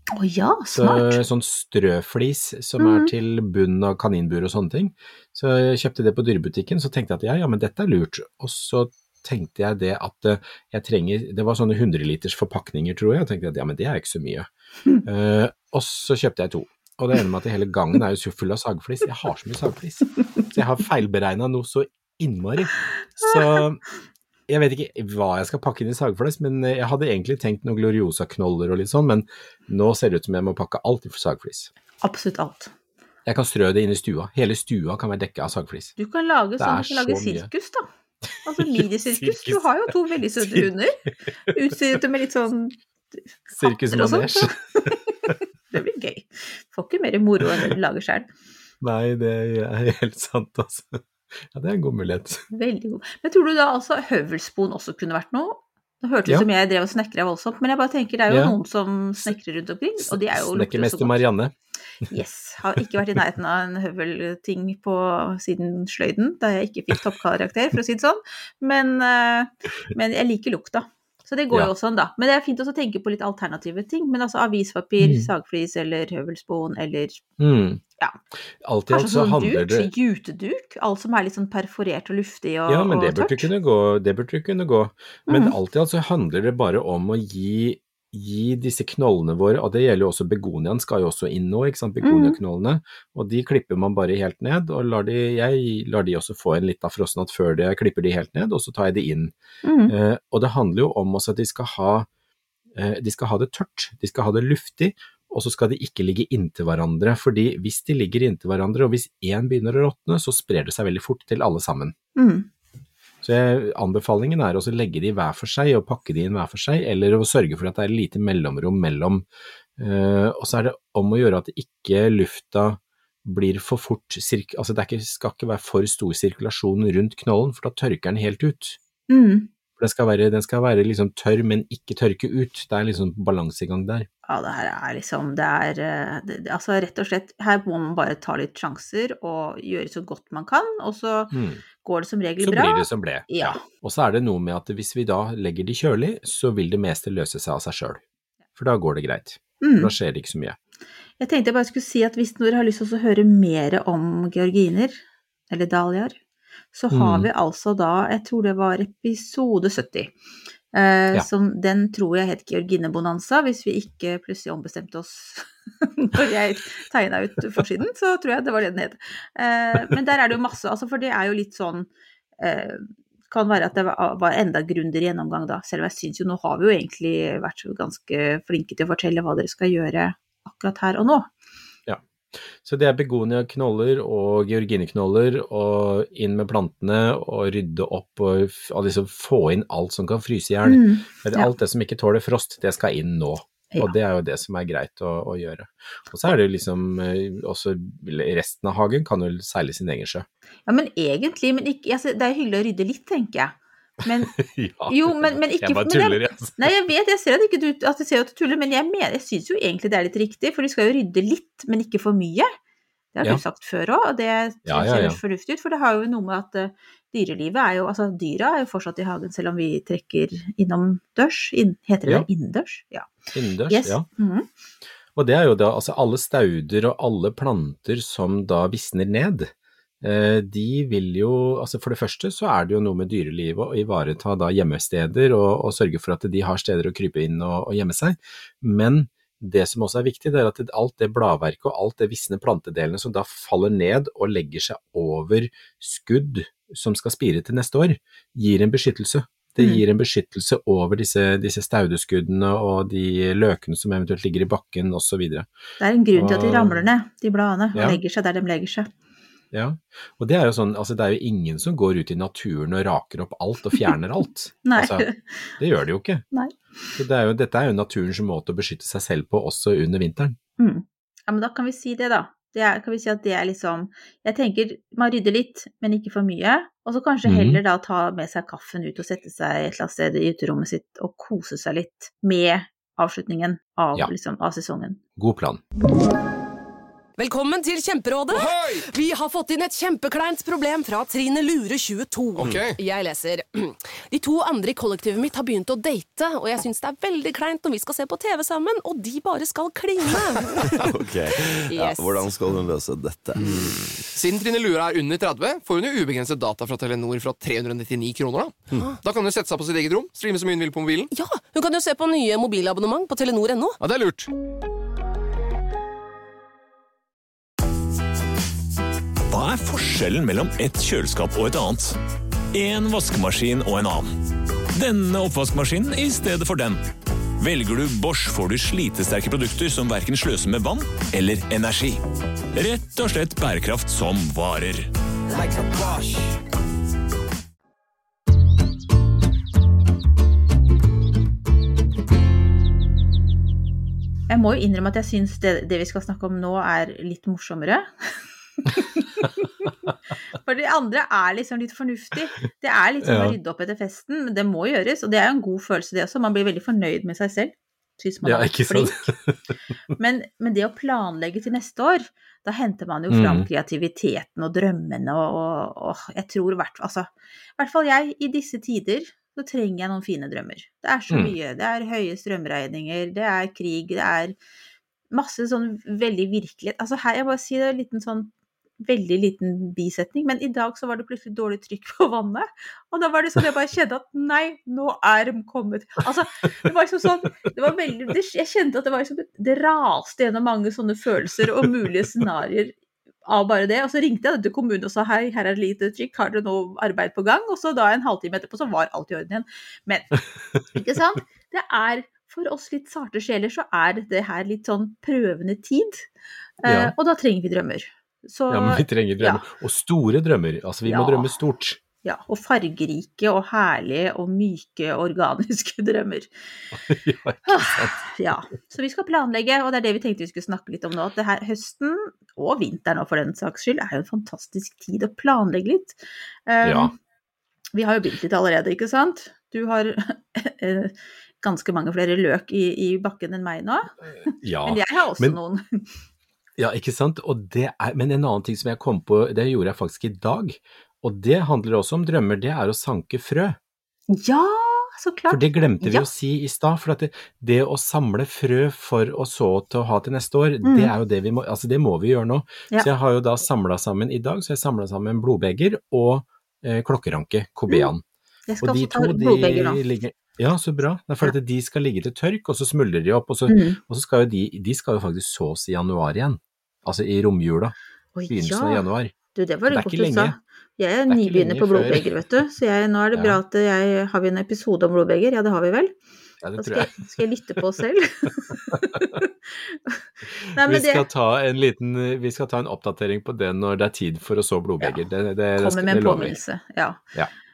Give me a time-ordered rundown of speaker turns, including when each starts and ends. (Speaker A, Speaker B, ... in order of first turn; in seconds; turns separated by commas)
Speaker A: 0.1-1.2, Speaker B: 0.7-14.5, Speaker A: 2.8-3.1, Speaker B: 15.1-23.8, Speaker A: 23.2-23.6, Speaker B: 24.5-31.7, Speaker A: 32.0-32.7, Speaker B: 33.3-36.0, Speaker A: 36.0-37.9, Speaker B: 36.6-37.5, Speaker A: 38.4-42.8, Speaker B: 38.6-40.7, Speaker B: 43.5-44.5, Speaker A: 43.6-48.3, Speaker B: 48.8-52.4, Speaker A: 52.5-61.2, Speaker B: 58.3-58.6, Speaker B: 60.0-61.5, Speaker A: 62.1-77.2, Speaker B: 75.0-75.3, Speaker B: 77.4-77.8, Speaker B: 78.6-79.9, Speaker A: 78.9-83.5, Speaker B: 82.7-99.3, Speaker A: 85.3-85.5, Speaker A: 92.0-92.4, Speaker A: 99.6-100.0, Speaker B: 99.9-102.1, Speaker B: 102.8-111.9, Speaker A: 112.2-112.5, Speaker B: 113.2-119.3, Speaker B: 119.8-128.8, Speaker A: 129.1-129.5, Speaker B: 129.8-134.1, Speaker A: 134.3-143.6, Speaker B: 141.3-141.6, Speaker B: 142.4-148.0, Speaker B: 148.6-150.6, Speaker A: 149.6-149.9, Speaker A: 151.2-156.2, Speaker A: 156.7-160.1, Speaker B: 156.9-157.3, Speaker A: 160.7-181.3, Speaker B: 182.5-200.3, Speaker A: 190.7-191.5, Speaker A: 200.7-204.3, Speaker B: 204.2-206.7, Speaker A: 204.9-212.5, Speaker A: 213.2-223.2, Speaker B: 214.7-215.2, Speaker B: 223.3-224.1, Speaker A: 223.7-224.5, Speaker B: 225.2-255.5, Speaker A: 255.8-258.9, Speaker B: 256.1-256.9, Speaker B: 257.8-258.0, Speaker B: 259.5-265.1, Speaker A: 264.6-265.2, Speaker B: 265.6-266.2, Speaker B: 267.0-270.4, Speaker A: 270.6-285.0, Speaker B: 277.2-277.6, Speaker B: 285.2-285.6, Speaker C: 287.2-300.9, Speaker D: 288.3-288.8, Speaker D: 292.4-292.8, Speaker C: 301.5-302.4, Speaker E: 301.8-303.7, Speaker D: 303.4-311.1, Speaker C: 311.1-313.8, Speaker D: 313.8-314.3, Speaker F: 319.3-322.0, Speaker F: 322.5-324.1, Speaker F: 324.8-326.8, Speaker F: 327.4-332.0, Speaker F: 332.6-334.9, Speaker E: 335.3-336.4, Speaker A: 344.3-349.7, Speaker A: 350.4-359.1, Speaker B: 353.0-353.4, Speaker B: 358.2-359.4, Speaker A: 360.0-374.4, Speaker B: 363.1-363.5, Speaker B: 371.1-371.4, Speaker A: 375.1-378.3, Speaker A: 378.8-392.8, Speaker A: 393.3-400.2, Speaker A: 400.7-406.1, Speaker A: 406.6-409.4, Speaker B: 406.6-406.9, Speaker B: 408.5-411.8, Speaker A: 410.9-411.3, Speaker A: 412.0-416.3, Speaker B: 416.8-418.0, Speaker A: 417.5-426.9, Speaker B: 426.6-426.9, Speaker A: 427.7-433.9, Speaker B: 434.4-435.4, Speaker A: 434.6-435.9, Speaker B: 436.6-443.6, Speaker A: 444.1-446.1, Speaker B: 445.3-458.0, Speaker A: 450.6-450.9, Speaker A: 458.5-459.8, Speaker B: 458.6-467.8, Speaker A: 463.5-463.8, Speaker A: 468.1-475.9, Speaker B: 468.3-469.1, Speaker B: 469.7-470.4, Speaker B: 471.1-472.1, Speaker B: 473.1-473.4, Speaker B: 476.4-477.1, Speaker A: 476.6-481.1, Speaker B: 478.7-479.0, Speaker B: 480.5-486.4, Speaker A: 485.6-487.0